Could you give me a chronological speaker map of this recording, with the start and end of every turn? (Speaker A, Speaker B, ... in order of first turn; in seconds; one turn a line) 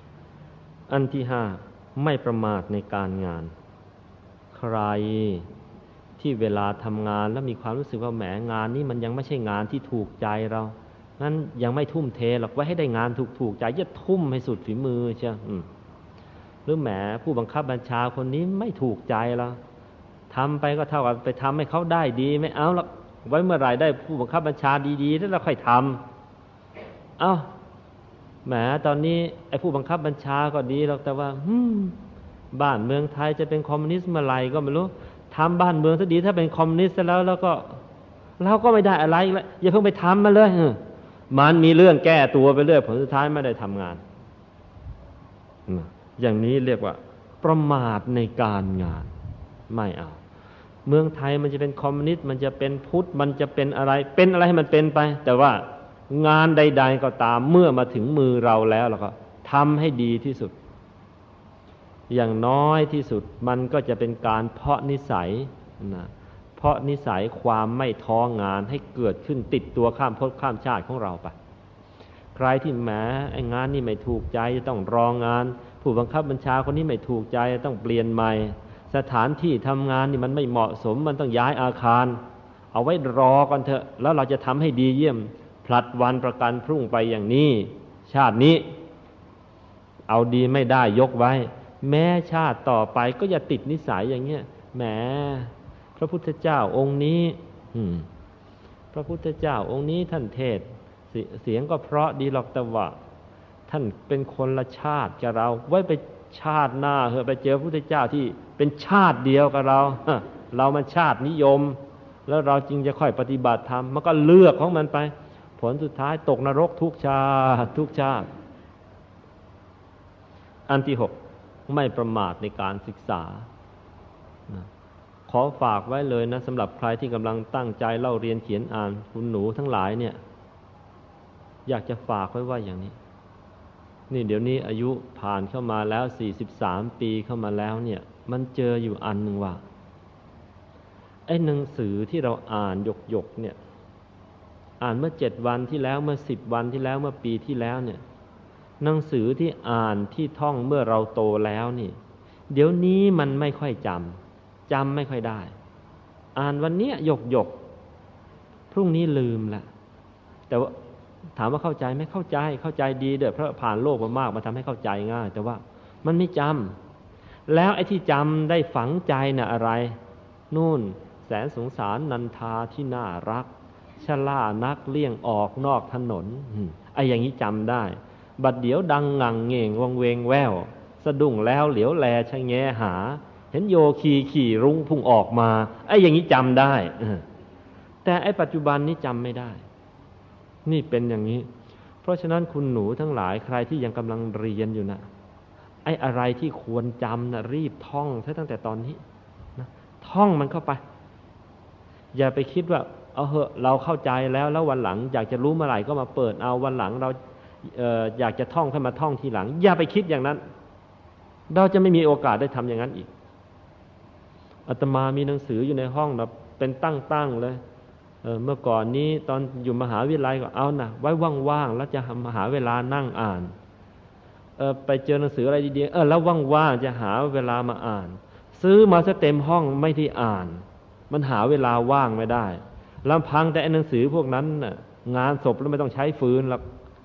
Speaker A: 0.9-3.5
Speaker A: 4.5-5.5
Speaker A: 6.2-15.7
Speaker A: 16.7-19.6
Speaker A: 20.3-26.0
Speaker A: 27.2-27.5
Speaker A: 28.4-32.0
Speaker A: 32.5-37.8
Speaker A: 38.4-44.0
Speaker A: 45.7-49.1
Speaker A: 49.7-50.2
Speaker A: 50.9-60.6
Speaker A: 62.1-71.3
Speaker A: 72.3-88.7
Speaker A: 90.1-98.1
Speaker A: 98.9-103.0
Speaker A: 103.7-118.3
Speaker A: 120.7-121.2
Speaker A: 121.7-123.5
Speaker A: 125.3-130.2
Speaker A: 131.7-133.0
Speaker A: 134.1-139.6
Speaker A: 141.3-143.6
Speaker A: 144.8-148.0
Speaker A: 148.8-152.0
Speaker A: 152.5-155.5
Speaker A: 156.4-157.6
Speaker A: 158.7-159.7
Speaker A: 160.5-160.8
Speaker A: 161.4-166.8
Speaker A: 167.5-170.0
Speaker A: 170.5-173.5
Speaker A: 174.0-187.2
Speaker A: 188.0-189.6
Speaker A: 190.7-191.5
Speaker A: 192.0-195.1
Speaker A: 195.8-199.0
Speaker A: 199.6-200.8
Speaker A: 202.1-210.4
Speaker A: 211.5-213.1
Speaker A: 214.7-217.6
Speaker A: 218.2-223.5
Speaker A: 224.6-236.6